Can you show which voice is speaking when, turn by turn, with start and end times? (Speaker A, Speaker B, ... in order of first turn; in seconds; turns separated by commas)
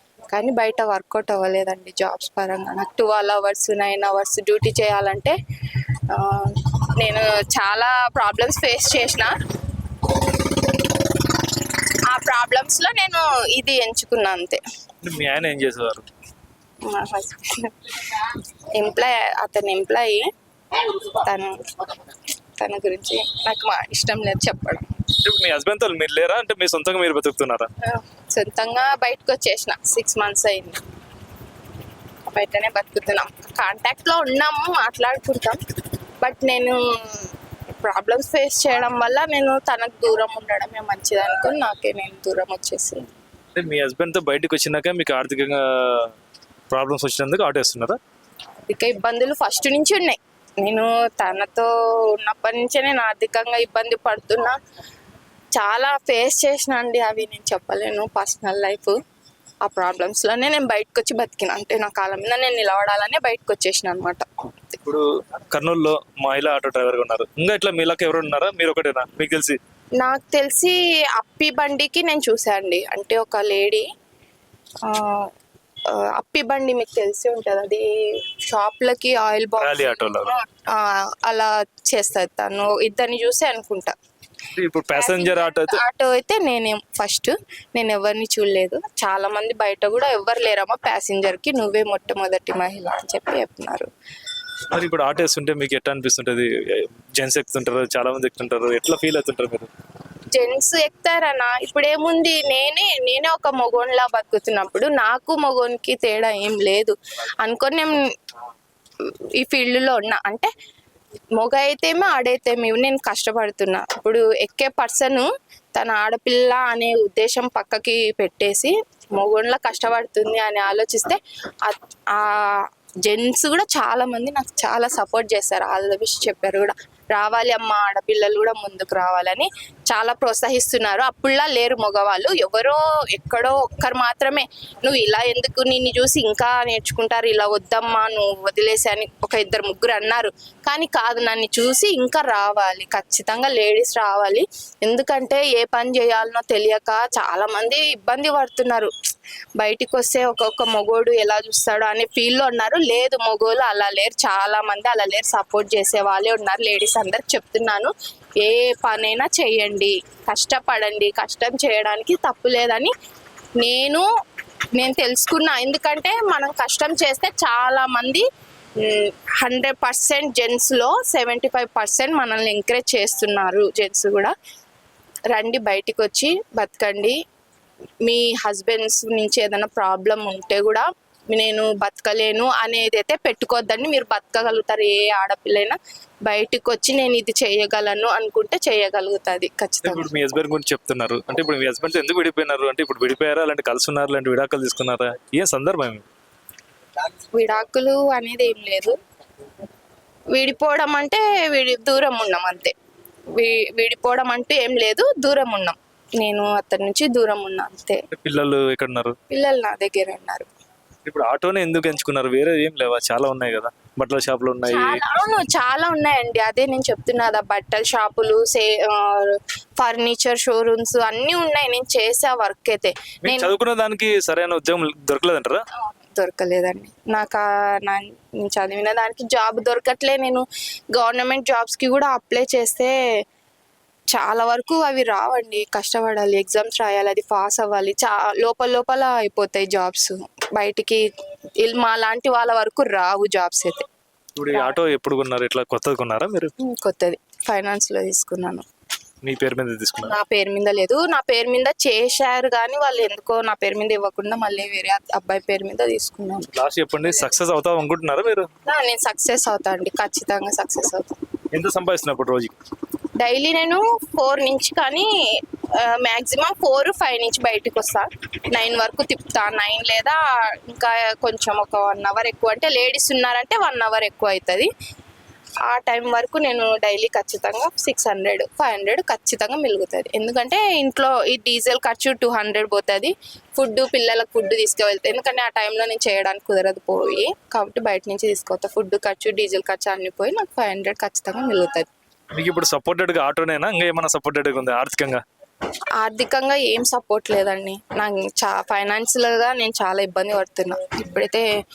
Speaker A: 0.3-5.3, Speaker A: 6.1-9.3, Speaker A: 10.1-11.2, Speaker A: 12.1-14.6, Speaker B: 15.0-16.1, Speaker A: 16.9-25.1, Speaker B: 25.2-27.7, Speaker A: 27.8-30.8, Speaker A: 32.3-35.6, Speaker A: 36.2-43.0, Speaker B: 43.5-46.1, Speaker B: 46.7-48.0, Speaker A: 48.7-54.5, Speaker A: 55.5-59.0, Speaker A: 59.6-64.2, Speaker B: 64.8-69.6, Speaker A: 70.0-73.9, Speaker A: 74.8-75.3, Speaker A: 75.9-84.0, Speaker B: 79.6-80.3, Speaker B: 84.5-85.8, Speaker A: 84.9-93.9, Speaker B: 94.7-99.7, Speaker A: 100.3-108.0, Speaker A: 109.4-110.5, Speaker A: 111.4-148.9, Speaker A: 149.6-162.9, Speaker A: 163.6-164.1, Speaker A: 164.8-168.2, Speaker A: 168.8-174.3, Speaker A: 175.3-177.2, Speaker A: 178.1-190.1, Speaker B: 189.8-196.1, Speaker A: 197.3-198.9, Speaker A: 200.3-202.7, Speaker A: 203.3-208.0, Speaker B: 208.2-209.2, Speaker A: 209.3-210.5, Speaker B: 211.1-215.0, Speaker A: 214.7-223.5, Speaker B: 223.2-225.6, Speaker A: 225.8-232.9, Speaker A: 234.1-241.0, Speaker A: 241.6-243.8, Speaker B: 244.4-246.5, Speaker A: 244.5-244.8, Speaker A: 246.6-248.6, Speaker B: 249.2-250.2, Speaker A: 250.1-256.5, Speaker B: 256.5-258.5, Speaker A: 258.7-261.1, Speaker B: 261.5-262.5, Speaker A: 263.2-265.1, Speaker A: 265.8-274.7, Speaker A: 275.7-291.9, Speaker B: 292.4-295.2, Speaker A: 296.0-301.5